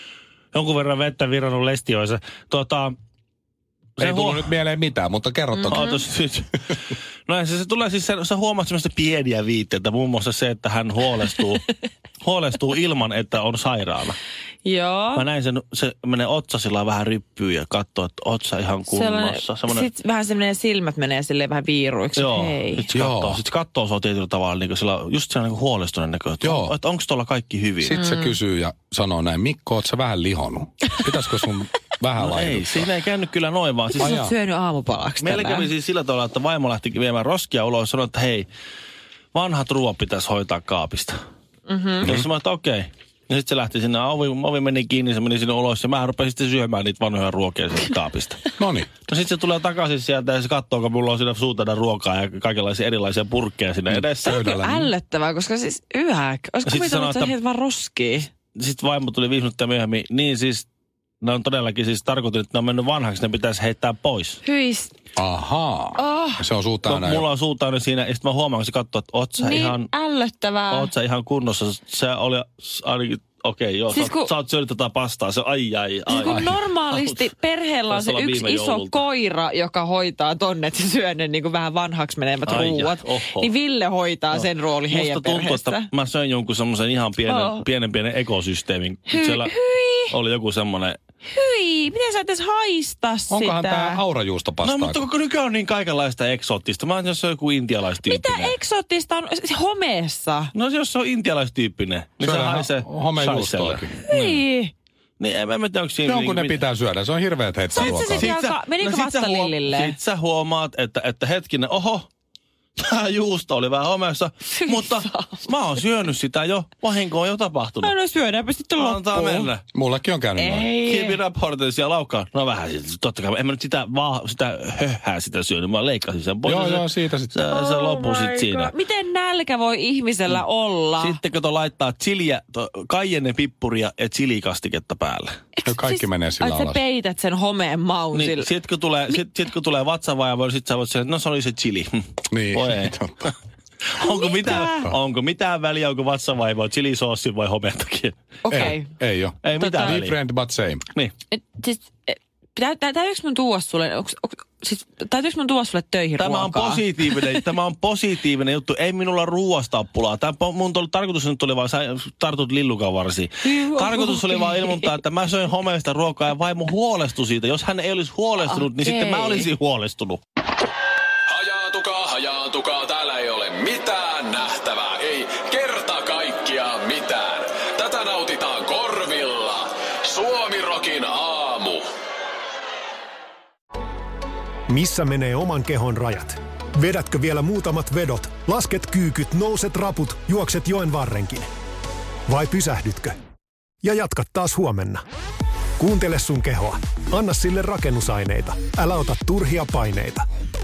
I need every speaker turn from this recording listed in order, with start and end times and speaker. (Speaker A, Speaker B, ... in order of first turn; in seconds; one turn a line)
Speaker A: 0.5-2.9
Speaker A: 4.0-4.5
Speaker B: 4.0-5.9
Speaker A: 5.6-11.7
Speaker C: 5.6-6.0
Speaker A: 12.2-14.2
Speaker C: 14.6-15.2
Speaker A: 15.1-19.9
Speaker C: 18.9-22.8
Speaker A: 22.2-27.9
Speaker B: 22.9-23.4
Speaker B: 26.4-26.7
Speaker B: 27.8-32.9
Speaker C: 27.9-28.3
Speaker A: 32.2-34.1
Speaker B: 34.0-34.3
Speaker C: 34.0-35.7
Speaker A: 35.2-38.5
Speaker A: 39.3-41.1
Speaker C: 41.7-42.1
Speaker A: 42.0-48.5
Speaker B: 48.6-48.9
Speaker A: 49.0-54.4
Speaker B: 53.9-54.9
Speaker C: 54.2-58.3
Speaker A: 56.6-57.3
Speaker A: 58.5-60.7
Speaker A: 61.2-64.4
Speaker C: 64.4-64.9
Speaker B: 65.2-67.2
Speaker C: 65.9-66.4
Speaker A: 66.8-69.9
Speaker C: 69.4-70.9
Speaker A: 70.7-77.2
Speaker C: 73.9-74.3
Speaker C: 76.1-85.9
Speaker B: 76.3-76.5
Speaker A: 77.9-79.0
Speaker A: 82.5-83.5
Speaker A: 84.3-89.5
Speaker C: 87.3-87.6
Speaker C: 89.1-90.1
Speaker A: 90.1-91.0
Speaker C: 91.3-94.0
Speaker B: 93.3-95.0
Speaker A: 94.6-98.5
Speaker C: 98.0-100.5
Speaker A: 100.5-104.4
Speaker B: 102.2-103.9
Speaker C: 104.1-104.7
Speaker A: 105.2-106.6
Speaker B: 106.0-108.3
Speaker C: 107.7-110.0
Speaker A: 107.7-112.1
Speaker A: 112.8-117.9
Speaker C: 114.5-115.4
Speaker C: 117.8-119.5
Speaker A: 118.8-119.6
Speaker B: 119.7-120.7
Speaker C: 120.4-121.2
Speaker A: 120.8-128.7
Speaker B: 126.5-127.5
Speaker C: 127.5-131.2
Speaker A: 131.0-135.3
Speaker C: 135.6-138.5
Speaker B: 135.7-136.8
Speaker A: 138.1-142.0
Speaker B: 142.3-143.3
Speaker A: 142.5-143.0
Speaker A: 143.9-148.7
Speaker C: 144.0-144.9
Speaker C: 148.4-148.9
Speaker B: 148.5-150.8
Speaker A: 149.4-150.2
Speaker C: 149.6-150.0
Speaker C: 151.3-157.3
Speaker A: 156.2-170.2
Speaker C: 163.4-164.9
Speaker C: 168.6-169.5
Speaker D: 171.3-181.8
Speaker E: 184.7-191.5
Speaker E: 192.3-193.1
Speaker E: 193.8-195.0
Speaker E: 195.8-200.2